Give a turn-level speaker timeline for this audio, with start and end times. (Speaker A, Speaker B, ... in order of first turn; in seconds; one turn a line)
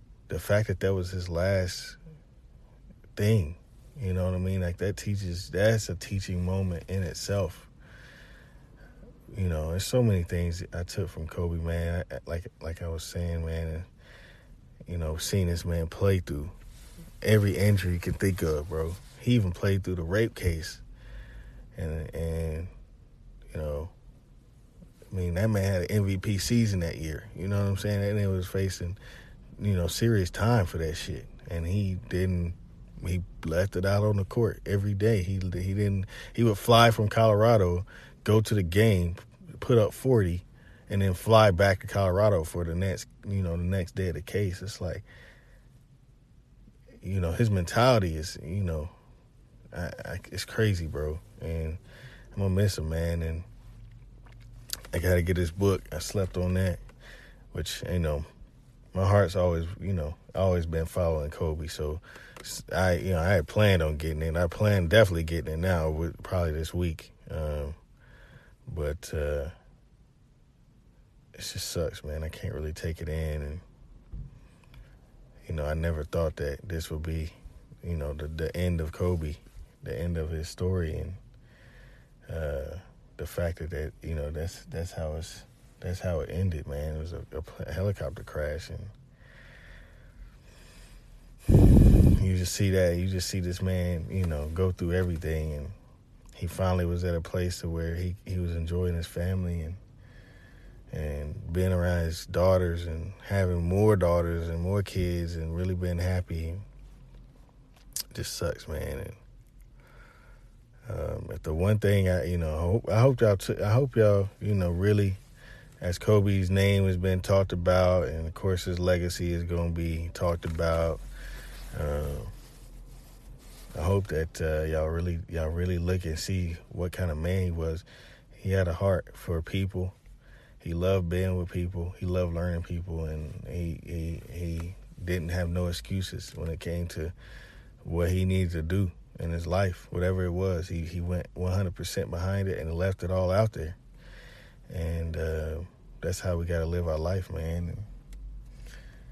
Speaker A: 0.3-2.0
Speaker A: 3.1-7.7
Speaker A: 9.3-13.9
Speaker A: 14.9-16.5
Speaker A: 17.2-20.8
Speaker A: 21.7-22.7
Speaker A: 23.5-23.9
Speaker A: 25.1-29.0
Speaker A: 29.6-45.0
Speaker A: 47.0-48.9
Speaker A: 49.7-51.8
Speaker A: 52.3-53.5
Speaker A: 54.9-56.8
Speaker A: 57.5-58.2
Speaker A: 58.9-67.8
Speaker A: 68.7-69.5
Speaker A: 71.3-73.6
Speaker A: 75.5-81.2
Speaker A: 82.3-88.9
Speaker A: 91.7-95.7
Speaker A: 96.3-99.8
Speaker A: 100.9-106.6
Speaker A: 108.1-109.2
Speaker A: 110.9-115.2
Speaker A: 115.8-121.0
Speaker A: 121.7-122.3
Speaker A: 123.7-127.8
Speaker A: 128.4-129.9
Speaker A: 130.6-137.1
Speaker A: 137.8-143.8
Speaker A: 144.7-147.9